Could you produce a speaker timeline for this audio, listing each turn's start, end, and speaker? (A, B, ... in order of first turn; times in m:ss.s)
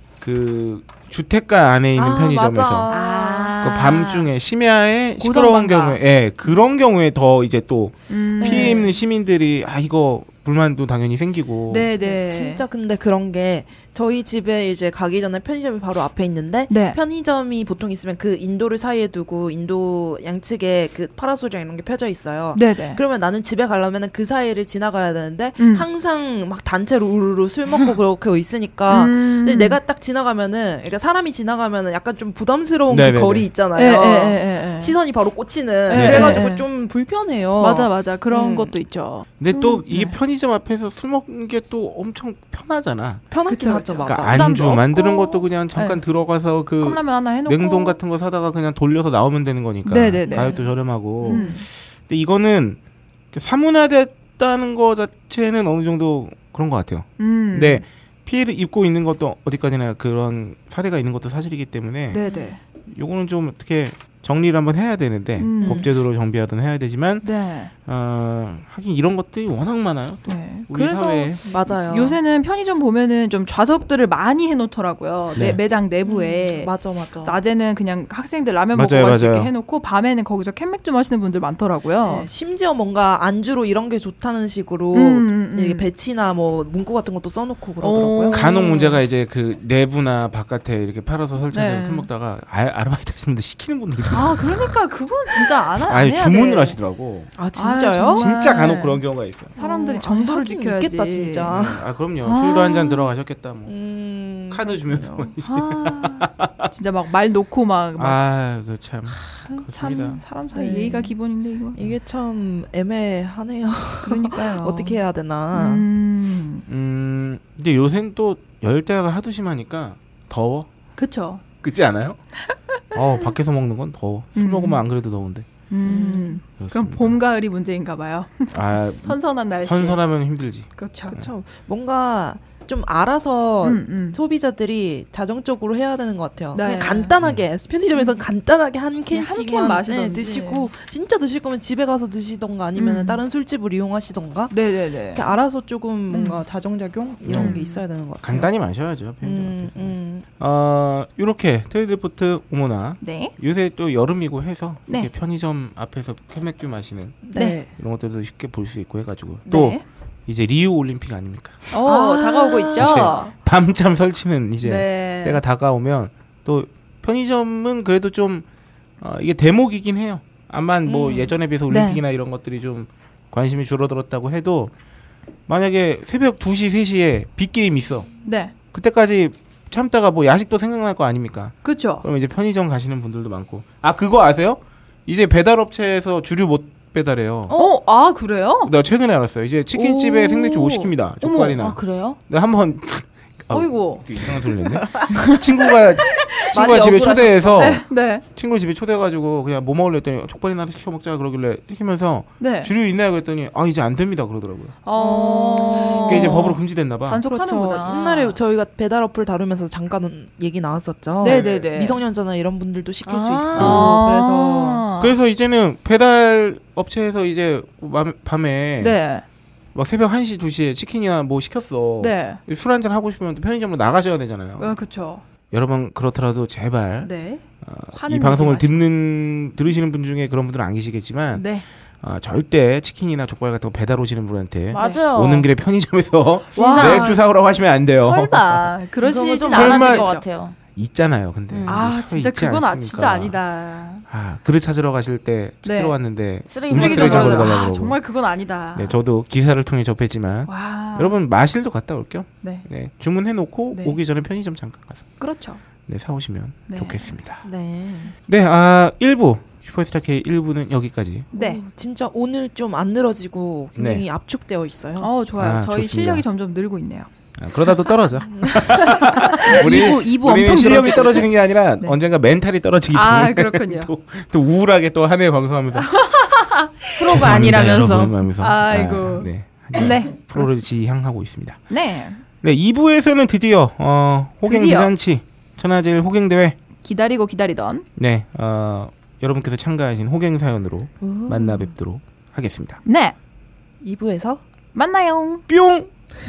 0:00.2-0:02.9 A
0:02.0-0:03.6 B
0:02.9-0:04.3 C
0:03.6-0:11.9 A
0:05.2-0:06.0 C
0:08.1-0:08.9 C
0:08.4-0:09.0 B
0:11.7-0:12.6 C
0:12.0-0:38.7 B
0:16.7-0:17.0 C
0:22.5-0:23.0 C
0:25.6-0:25.8 C
0:28.9-0:29.8 C
0:32.9-0:33.5 A
0:33.7-0:34.9 C
0:35.9-0:36.6 C
0:35.9-0:36.4 A
0:37.6-0:40.1 C
0:39.4-0:43.2 A
0:43.3-0:44.4 B
0:43.5-0:46.0 C
0:44.0-0:52.8 A
0:46.8-0:48.0 C
0:49.8-0:50.6 C
0:50.3-0:50.6 B
0:51.2-0:51.6 B
0:51.2-0:51.6 C
0:53.3-1:02.2 A
0:57.2-0:57.8 C
1:02.1-1:02.6 C
1:02.2-1:02.5 B
1:02.9-1:07.3 A
1:05.4-1:05.8 C
1:05.6-1:05.9 B
1:07.2-1:07.7 C
1:07.8-1:11.4 A
1:10.2-1:22.3 C
1:11.4-1:12.2 B
1:16.0-1:17.4 B
1:18.7-1:19.5 A
1:22.0-1:28.4 B
1:24.9-1:25.9 C
1:27.8-1:29.0 C
1:28.3-1:34.7 A
1:31.5-1:32.1 C
1:34.1-1:36.8 C
1:35.4-1:37.3 A
1:37.4-1:38.2 B
1:37.5-1:39.0 C
1:38.2-1:39.5 A
1:39.5-1:41.5 C
1:39.6-1:41.8 B
1:41.5-1:43.7 A
1:42.2-1:43.1 C
1:43.7-1:45.3 B
1:44.5-1:46.7 A
1:45.5-1:48.2 C
1:48.0-1:50.2 A
1:49.1-1:51.8 C
1:50.5-1:51.1 B
1:51.7-1:55.8 B
1:54.0-1:55.0 C
1:55.5-1:56.6 C
1:56.7-2:00.7 A
2:01.0-2:01.4 C
2:01.6-2:02.2 A
2:02.9-2:05.5 A
2:04.4-2:04.8 C
2:05.7-2:10.0 C
2:05.8-2:06.4 B
2:06.6-2:07.2 A
2:08.5-2:11.3 A
2:10.8-2:11.2 C
2:11.1-2:24.5 B
2:13.6-2:14.2 C
2:16.5-2:17.1 C
2:19.1-2:20.7 C
2:22.8-2:23.2 C
2:24.5-2:25.2 C
2:25.1-2:28.5 B
2:26.1-2:26.4 C
2:27.2-2:27.6 A
2:27.3-2:27.8 C
2:28.2-2:41.7 A
2:29.2-2:30.2 B
2:33.0-2:33.3 C
2:37.2-2:37.7 B
2:37.3-2:37.6 C
2:39.5-2:39.8 C
2:41.7-2:43.3 C
2:41.7-2:43.1 B
2:42.8-2:48.4 A
2:44.6-2:45.4 C
2:49.0-2:54.7 A
2:50.9-2:52.0 C
2:55.5-2:58.1 A
2:58.2-2:58.5 C
2:58.7-3:07.6 A
3:01.6-3:02.0 C
3:07.5-3:07.7 D
3:07.5-3:08.7 C
3:08.6-3:24.8 A
3:09.7-3:11.6 C
3:11.6-3:12.2 D
3:13.5-3:15.4 C
3:14.9-3:15.2 B
3:16.1-3:16.4 C
3:16.5-3:17.8 B
3:17.6-3:18.2 C
3:22.4-3:22.7 C
3:24.8-3:28.4 C
3:25.0-3:26.5 D
3:26.0-3:27.2 A
3:27.2-3:34.8 B
3:31.2-3:32.0 C
3:31.2-3:31.7 A
3:33.0-3:34.0 D
3:33.6-3:33.9 A
3:33.6-3:35.2 C
3:35.0-3:39.0 A
3:38.8-3:39.2 C
3:39.7-3:44.8 A
3:42.0-3:42.4 C
3:44.6-3:45.2 C
3:45.5-3:47.1 A
3:47.0-3:48.8 C
3:47.6-3:51.5 A
3:51.3-3:51.6 C
3:52.0-3:58.7 A
3:54.7-3:55.5 D
3:56.5-3:57.2 C
3:56.5-3:57.2 D
3:57.9-4:00.2 C
3:59.0-4:00.6 D
3:59.5-4:00.1 A
4:00.7-4:03.4 A
4:01.5-4:01.8 D
4:01.7-4:04.0 C
4:04.1-4:08.0 A
4:05.6-4:06.0 C
4:06.5-4:07.7 D
4:06.6-4:09.0 C
4:08.8-4:15.1 A
4:10.5-4:11.2 C
4:12.4-4:12.7 C
4:13.7-4:14.0 C
4:15.2-4:15.6 C
4:15.9-4:17.4 A
4:16.7-4:17.2 C
4:17.4-4:18.1 B
4:18.3-4:21.3 A
4:21.3-4:21.6 C
4:21.3-4:25.1 B
4:23.8-4:24.0 A
4:25.0-4:27.1 C
4:25.4-4:26.2 A
4:27.4-4:36.0 A
4:28.2-4:30.0 B
4:28.6-4:32.0 C
4:32.9-4:33.9 C
4:35.8-4:37.4 C
4:37.0-4:38.2 D
4:37.0-4:41.6 A
4:38.4-4:40.6 C
4:41.7-4:42.2 C
4:42.4-4:46.6 A
4:44.4-4:44.9 C
4:46.8-4:47.8 C
4:48.0-4:52.8 A
4:51.0-4:51.7 B
4:52.8-4:53.2 C
4:53.8-4:54.4 B
4:54.7-4:55.4 C
4:55.5-4:55.9 A